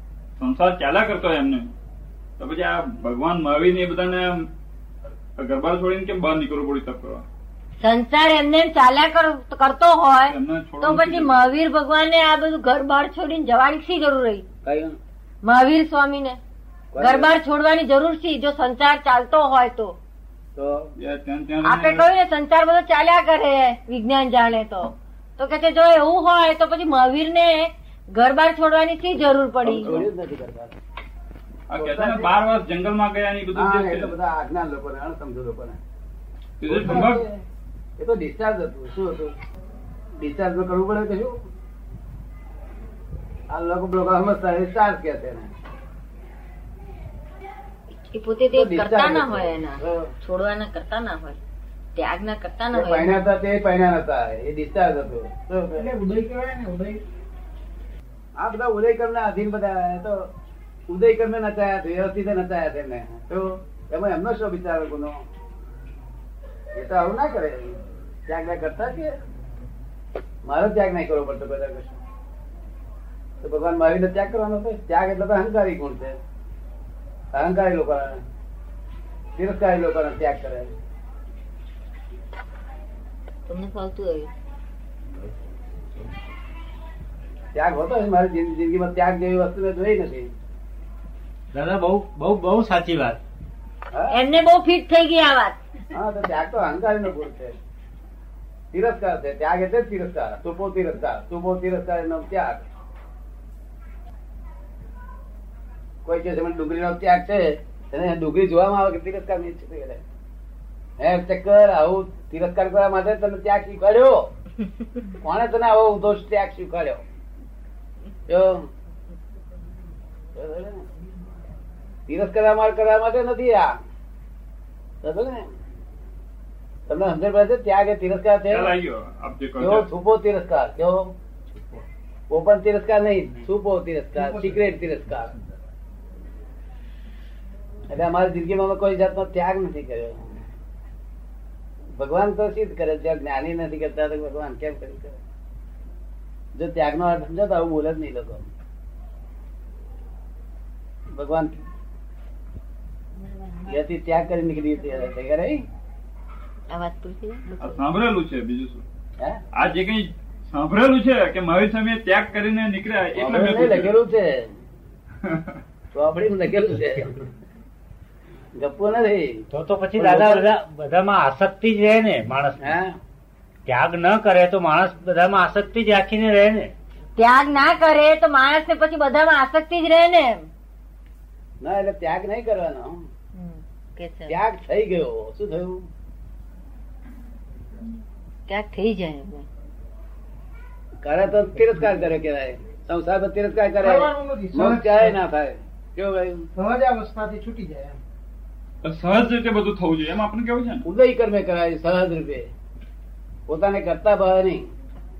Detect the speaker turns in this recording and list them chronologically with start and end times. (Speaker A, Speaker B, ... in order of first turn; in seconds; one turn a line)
Speaker A: 0.4-1.7
Speaker A: 2.4-4.5
Speaker A: 5.4-7.2
Speaker B: 7.8-14.4
Speaker A: 10.3-11.4
Speaker C: 14.6-15.0
Speaker B: 15.4-16.4
Speaker C: 16.9-17.3
Speaker B: 17.0-20.0
Speaker C: 20.6-20.9
Speaker A: 21.0-22.1
Speaker B: 21.6-30.0
Speaker C: 29.6-30.7
Speaker A: 29.8-30.1
Speaker A: 31.7-34.2
Speaker C: 31.7-32.3
Speaker C: 33.5-35.8
Speaker A: 36.6-37.2
Speaker C: 36.6-37.4
Speaker C: 38.0-39.3
Speaker C: 40.2-41.4
Speaker C: 43.5-45.5
Speaker B: 48.0-51.4
Speaker C: 48.5-50.1
Speaker B: 52.0-53.2
Speaker C: 52.7-55.9
Speaker D: 55.8-57.0
Speaker C: 58.4-60.3
Speaker C: 60.9-65.2
Speaker C: 66.8-69.1
Speaker C: 70.5-72.0
Speaker C: 73.4-76.2
Speaker C: 77.3-78.2
Speaker C: 79.4-80.7
Speaker B: 83.5-84.3
Speaker C: 87.5-90.3
Speaker E: 91.5-93.2
Speaker C: 93.9-94.2
Speaker B: 94.1-95.6
Speaker C: 95.9-97.5
Speaker C: 98.7-102.6
Speaker C: 106.0-110.0
Speaker C: 111.0-114.3
Speaker C: 115.2-117.0
Speaker C: 118.3-118.7
Speaker C: 120.3-120.9
Speaker C: 122.1-123.7
Speaker C: 125.0-125.5
Speaker C: 126.9-128.8
Speaker A: 128.5-129.9
Speaker C: 129.6-131.1
Speaker C: 132.3-135.3
Speaker C: 137.9-140.4
Speaker C: 142.0-145.2
Speaker C: 146.6-148.5
Speaker C: 151.1-151.6
Speaker B: 153.2-153.8
Speaker C: 153.7-155.6
Speaker B: 156.7-157.8
Speaker A: 157.6-158.8
Speaker A: 159.5-163.9
Speaker C: 163.2-164.5
Speaker C: 165.9-167.2
Speaker C: 168.6-169.5
Speaker E: 169.5-172.7
Speaker C: 170.0-170.5
Speaker C: 172.6-173.0
Speaker E: 173.7-176.7
Speaker B: 177.2-180.5
Speaker C: 181.6-183.0
Speaker B: 183.3-184.4
Speaker C: 184.3-185.9
Speaker B: 188.5-189.5
Speaker C: 191.0-196.5
Speaker D: 193.8-195.1
Speaker D: 196.6-198.0
Speaker A: 198.8-200.8
Speaker C: 200.8-202.5
Speaker C: 203.5-204.7